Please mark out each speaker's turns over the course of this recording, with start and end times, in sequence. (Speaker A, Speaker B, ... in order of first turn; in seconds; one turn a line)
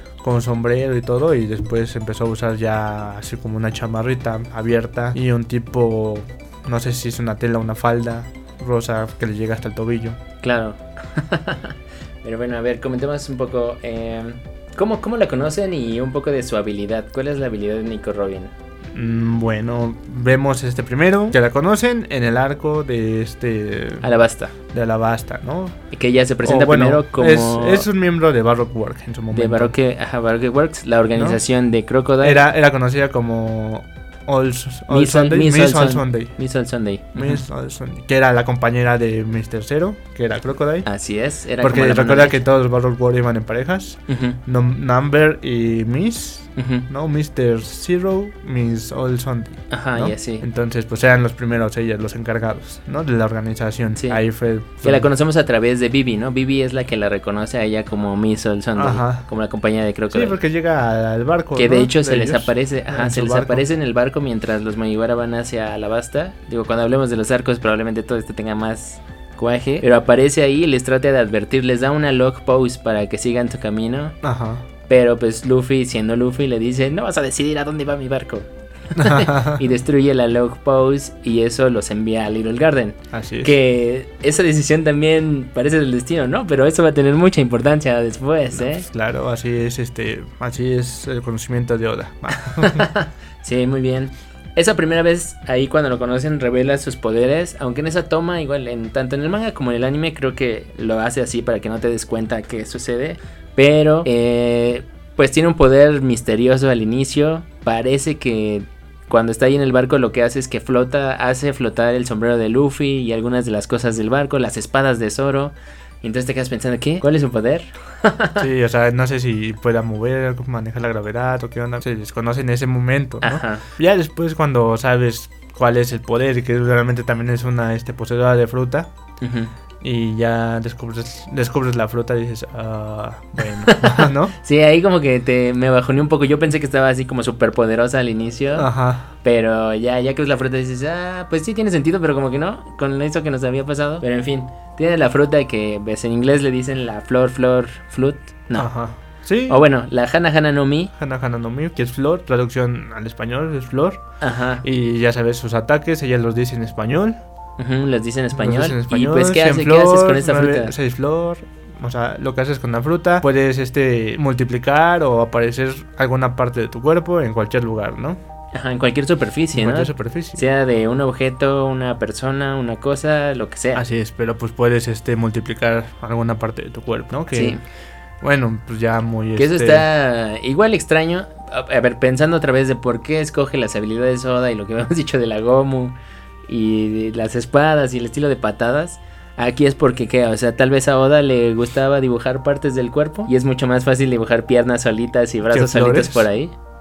Speaker A: 0.2-10.2
Speaker B: 10.4-18.5
Speaker A: 18.9-24.1
Speaker B: 24.0-24.5
Speaker A: 24.7-25.8
Speaker B: 25.9-27.9
Speaker A: 26.4-29.7
Speaker B: 29.3-32.4
Speaker A: 31.1-31.4
Speaker A: 32.2-36.3
Speaker B: 34.9-37.5
Speaker A: 37.1-40.9
Speaker B: 40.9-42.4
Speaker A: 41.6-55.1
Speaker B: 44.1-44.4
Speaker B: 46.5-46.9
Speaker B: 49.7-50.5
Speaker B: 54.8-60.4
Speaker A: 58.8-59.2
Speaker A: 60.1-63.6
Speaker B: 61.5-74.2
Speaker A: 74.2-74.6
Speaker B: 74.9-88.8
Speaker A: 78.9-79.6
Speaker A: 83.1-83.5
Speaker A: 88.5-92.9
Speaker B: 92.4-118.4
Speaker A: 118.4-128.9
Speaker B: 123.2-123.7
Speaker B: 129.2-129.5
Speaker A: 129.8-134.3
Speaker B: 133.4-138.7
Speaker A: 138.5-139.1
Speaker B: 139.2-148.7
Speaker A: 148.6-149.6
Speaker B: 149.5-150.9
Speaker A: 150.9-154.0
Speaker B: 154.2-154.6
Speaker A: 154.6-157.2
Speaker B: 157.6-160.7
Speaker A: 158.3-168.2
Speaker B: 168.5-173.8
Speaker A: 169.5-170.4
Speaker A: 173.7-177.6
Speaker B: 177.3-177.6
Speaker A: 178.2-179.8
Speaker B: 179.4-196.5
Speaker A: 195.5-196.2